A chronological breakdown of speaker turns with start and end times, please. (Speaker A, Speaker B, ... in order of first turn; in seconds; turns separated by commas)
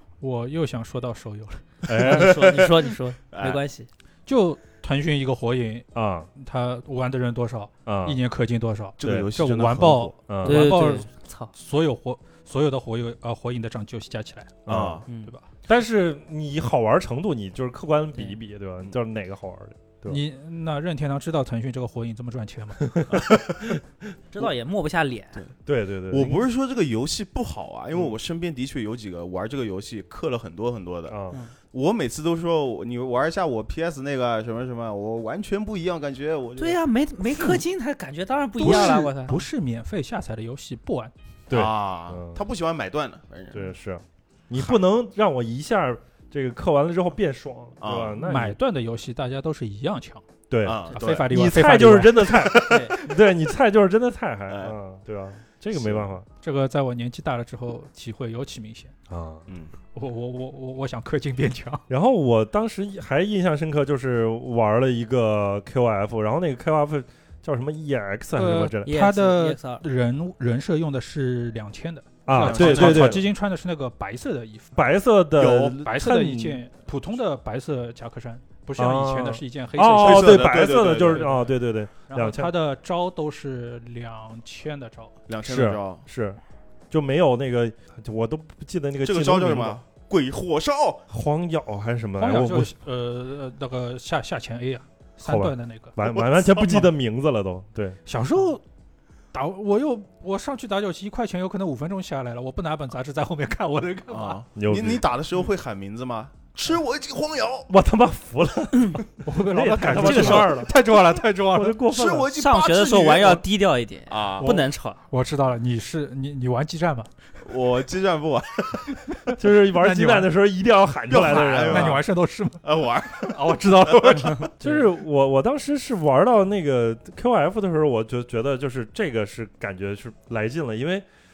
Speaker A: 0.2-1.6, Speaker B: 1.8-3.6, Speaker C: 1.9-2.3, Speaker D: 2.0-3.9, Speaker A: 4.3-15.4, Speaker C: 5.9-6.3, Speaker C: 7.8-8.2, Speaker B: 9.0-10.2, Speaker C: 9.0-9.3, Speaker C: 10.3-10.7, Speaker D: 10.4-11.5, Speaker C: 14.7-15.0, Speaker B: 14.7-15.0, Speaker D: 15.1-15.3, Speaker C: 15.7-20.2, Speaker A: 20.1-22.9, Speaker C: 22.9-23.8, Speaker B: 23.1-23.8, Speaker D: 24.3-25.4, Speaker C: 25.6-26.4, Speaker B: 26.1-31.2, Speaker C: 31.1-31.4, Speaker B: 31.7-36.8, Speaker D: 36.6-39.4, Speaker A: 38.6-41.1, Speaker C: 41.5-42.4, Speaker B: 41.5-43.7, Speaker C: 43.5-48.6, Speaker B: 47.8-48.2, Speaker A: 48.2-50.2, Speaker C: 50.5-56.2, Speaker B: 50.6-51.3, Speaker A: 50.9-52.5, Speaker B: 52.2-53.0, Speaker D: 52.6-53.0, Speaker B: 54.5-54.8, Speaker B: 55.7-56.1, Speaker A: 56.4-58.9, Speaker C: 59.1-59.5, Speaker B: 59.5-59.7, Speaker A: 59.9-61.9, Speaker C: 61.9-68.9, Speaker A: 68.3-74.7, Speaker D: 68.8-69.8, Speaker C: 72.2-73.2, Speaker B: 72.3-73.2, Speaker C: 74.7-76.6, Speaker B: 75.3-75.8, Speaker A: 75.8-85.1, Speaker C: 78.8-82.5, Speaker B: 80.0-81.3, Speaker B: 85.3-86.0, Speaker C: 85.4-86.4, Speaker C: 86.9-89.8, Speaker B: 89.0-91.0, Speaker C: 91.1-92.7, Speaker A: 92.2-96.0, Speaker C: 95.2-98.0, Speaker B: 96.0-96.9, Speaker A: 96.6-96.8, Speaker A: 98.0-98.6, Speaker A: 99.3-104.4, Speaker B: 104.1-107.7, Speaker C: 104.5-105.0, Speaker C: 107.7-110.7, Speaker A: 109.2-111.8, Speaker D: 109.9-110.5, Speaker B: 110.1-110.4, Speaker C: 111.5-112.3, Speaker B: 111.9-113.4, Speaker D: 112.3-115.0, Speaker B: 114.1-114.5, Speaker A: 114.4-117.1, Speaker B: 117.4-118.9, Speaker A: 119.2-120.3, Speaker C: 119.4-122.0, Speaker B: 121.1-122.0, Speaker A: 121.5-124.5, Speaker B: 122.6-124.5, Speaker C: 124.6-131.1